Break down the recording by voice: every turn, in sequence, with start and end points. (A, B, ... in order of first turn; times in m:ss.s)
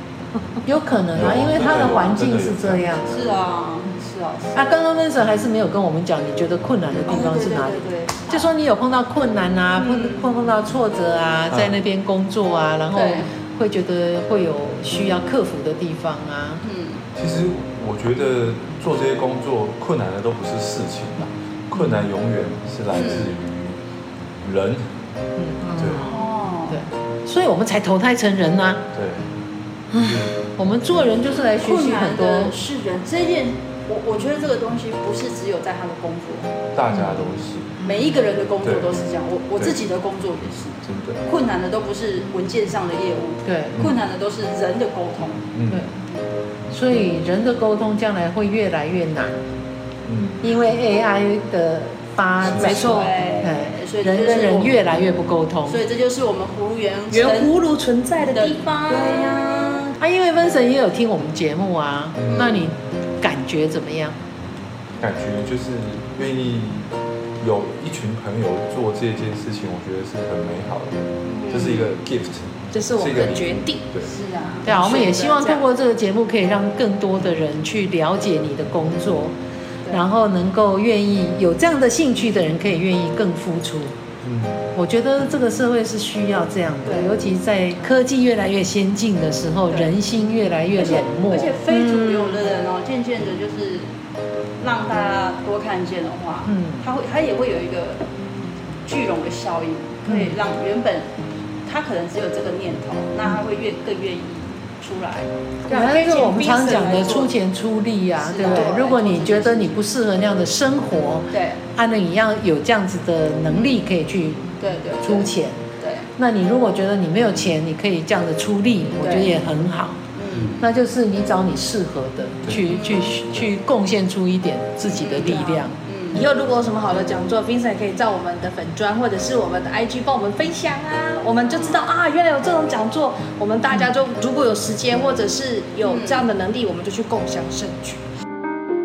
0:00.6-0:03.2 A
0:01.1-0:03.2 B
0:03.1-0:04.7 C
0:04.5-0:16.6 A
0:07.1-0:08.5 C
0:09.8-0:10.2 C
0:12.9-0:13.3 C
0:16.6-0:17.0 C
0:17.2-0:23.8 B
0:21.7-0:22.1 A
0:22.9-0:23.3 C
0:24.4-0:24.8 B
0:25.4-0:25.8 A
0:25.7-0:26.0 D
0:25.8-0:26.1 B
0:26.0-0:26.8 C
0:26.7-0:28.8 A
0:28.9-0:29.2 B
0:29.9-0:30.3 B
0:30.6-0:32.5 A
0:31.6-0:36.5 C
0:36.7-0:37.7 B
0:36.9-0:37.3 A
0:37.8-0:45.4 C
0:38.6-0:38.9 B
0:40.8-0:41.2 B
0:43.4-0:43.8 A
0:45.5-0:45.8 B
0:46.7-0:49.4 A
0:50.0-0:50.4 B
0:50.4-0:55.8 A
0:52.4-0:52.9 B
0:52.6-0:53.1 D
0:52.6-0:54.8 C
0:55.6-0:57.5 C
0:57.1-0:59.8 D
0:58.2-1:00.0 C
1:00.0-1:04.2 A
1:02.2-1:02.6 B
1:02.3-1:02.7 C
1:05.0-1:06.9 B
1:07.4-1:14.1 B
1:11.2-1:11.8 C
1:12.7-1:13.8 D
1:14.1-1:14.7 C
1:14.6-1:19.3 A
1:14.6-1:15.6 D
1:19.9-1:24.0 A
1:24.2-1:24.6 B
1:24.7-1:31.6 A
1:29.7-1:29.9 C
1:30.7-1:33.9 C
1:31.7-1:32.4 D
1:34.6-1:38.0 C
1:36.5-1:36.8 A
1:38.8-1:41.1 C
1:40.1-1:40.4 A
1:41.6-1:47.3 C
1:45.7-1:54.5 A
1:45.7-1:47.2 D
1:48.2-1:49.7 C
1:48.4-1:48.9 D
1:51.3-1:51.6 C
1:53.5-1:53.8 C
1:54.6-1:56.1 C
1:55.0-1:55.6 A
1:56.2-2:00.0 A
1:59.0-1:59.3 C
2:00.1-2:00.7 C
2:00.6-2:05.8 A
2:02.6-2:03.1 C
2:04.8-2:06.2 C
2:06.1-2:18.0 D
2:11.5-2:11.8 C
2:15.8-2:16.2 C